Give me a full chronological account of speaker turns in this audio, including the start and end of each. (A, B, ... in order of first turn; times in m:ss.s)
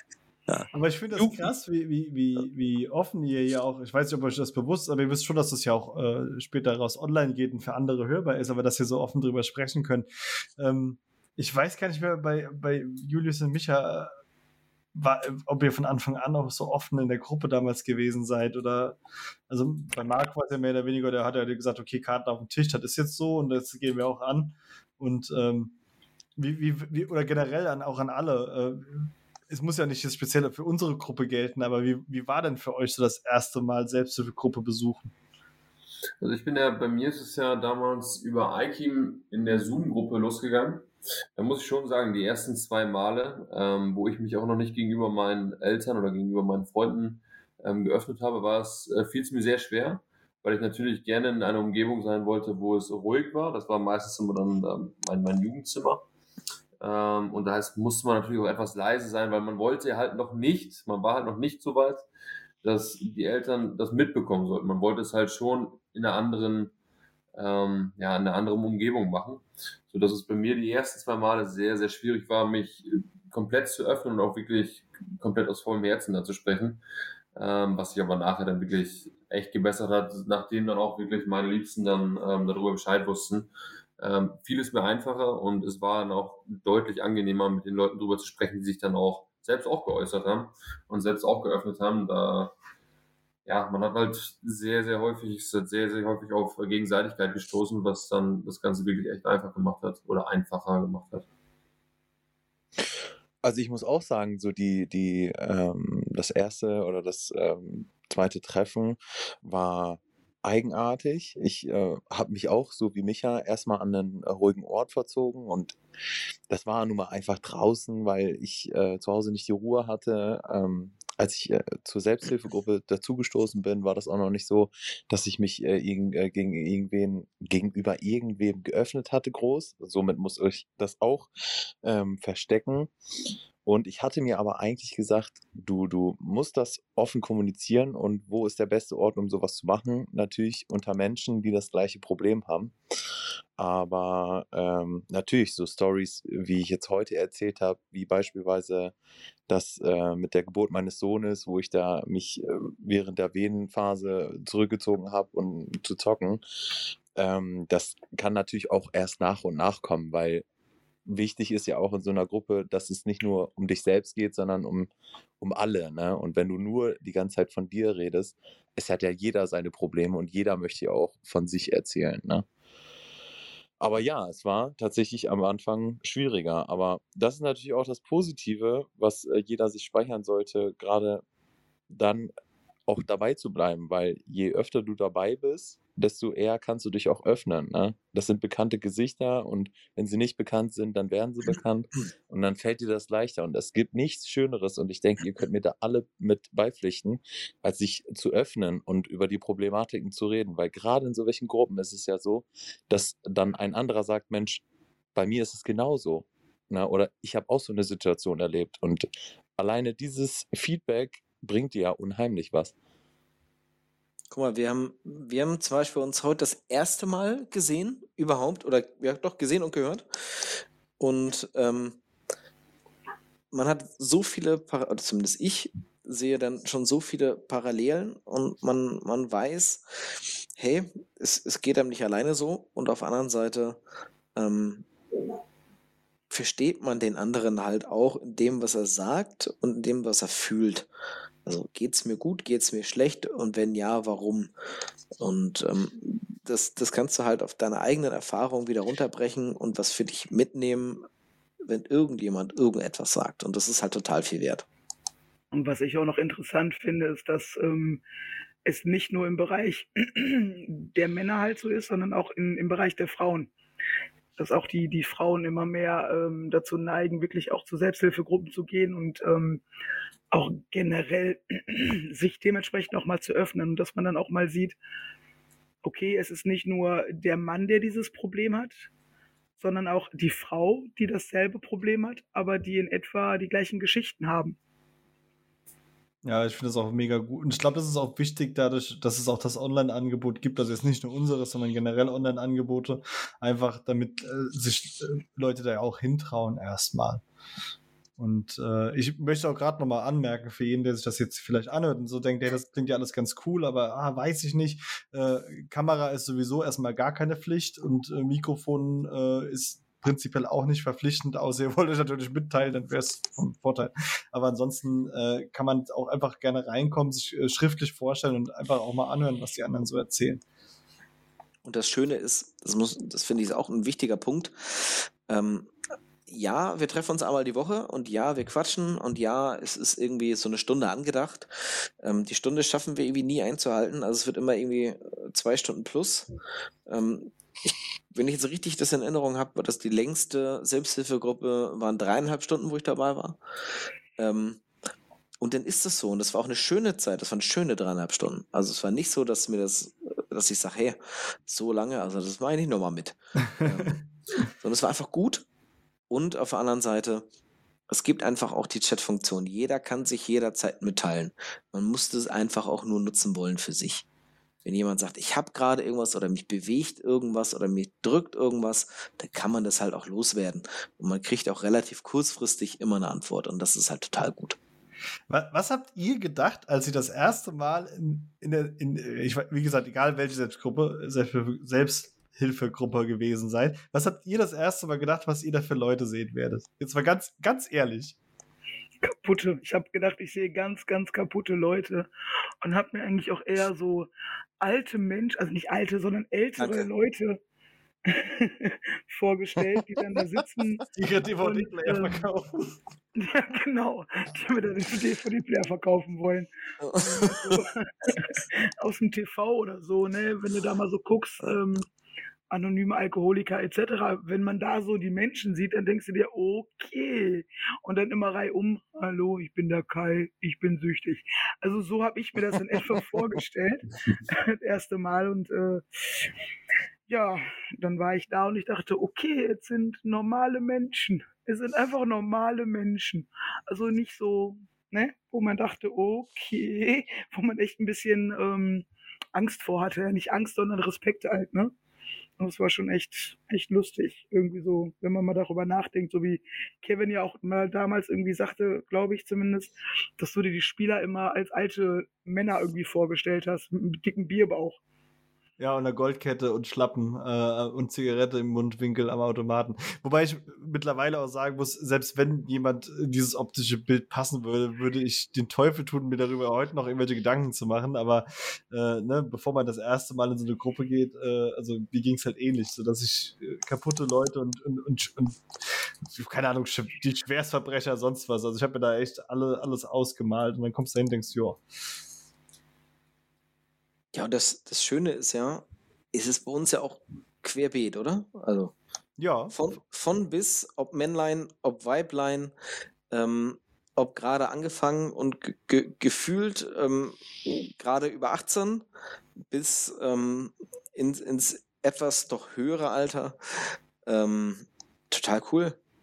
0:00.5-0:01.4 A
0:00.7-0:10.1 B
0:10.6-0:14.1 B
0:15.0-0:19.0 B
0:19.5-0:25.7 B
0:26.4-0:35.1 B
0:36.2-0:56.0 C
0:56.8-1:02.1 C
1:02.6-1:06.7 C
1:07.3-1:16.8 C
1:17.4-1:32.5 C
1:33.4-1:41.2 C
1:43.4-1:55.8 D
1:56.5-2:11.3 D
2:11.8-2:12.9 D
2:13.6-2:22.7 D
2:23.6-2:28.9 D
2:29.5-2:36.4 D
2:37.2-2:40.4 D
2:41.1-2:52.5 D
2:53.8-3:01.2 D
3:01.9-3:02.3 D
3:02.9-3:24.6 D
3:25.2-3:32.7 D
3:34.3-3:42.0 A
3:43.5-3:53.8 A
3:54.4-3:54.9 A
3:56.3-4:00.9 A
4:01.5-4:04.5 A
4:05.2-4:11.0 A
4:11.6-4:14.6 A
4:15.5-4:18.0 E
4:18.6-4:23.5 E
4:24.4-4:29.6 E
4:30.3-4:34.8 E
4:35.8-4:38.9 E
4:39.6-4:44.6 E
4:46.2-4:57.2 B
4:58.2-5:20.4 B
5:21.6-5:25.7 A
5:26.3-5:36.3 A
5:36.9-5:43.4 A
5:44.2-5:44.6 A
5:45.4-5:55.4 A
5:56.1-5:57.3 A
5:57.9-6:04.0 A
6:04.6-6:14.6 A
6:15.3-6:28.2 B
6:29.0-6:32.1 E
6:32.6-6:34.1 E
6:34.6-6:37.4 E
6:36.6-6:36.9 A
6:38.1-6:40.9 E
6:40.9-6:42.8 B
6:41.4-6:42.2 E
6:43.2-6:46.5 E
6:46.8-6:47.4 A
6:47.0-6:51.9 E
6:52.5-7:05.8 E
7:07.1-7:21.7 E
7:22.4-7:34.8 E
7:35.6-7:55.4 B
7:56.1-8:01.6 B
8:04.1-8:08.7 A
8:09.2-8:09.6 B
8:09.5-8:12.5 A
8:13.1-8:18.9 A
8:19.5-8:23.4 A
8:24.1-8:25.8 A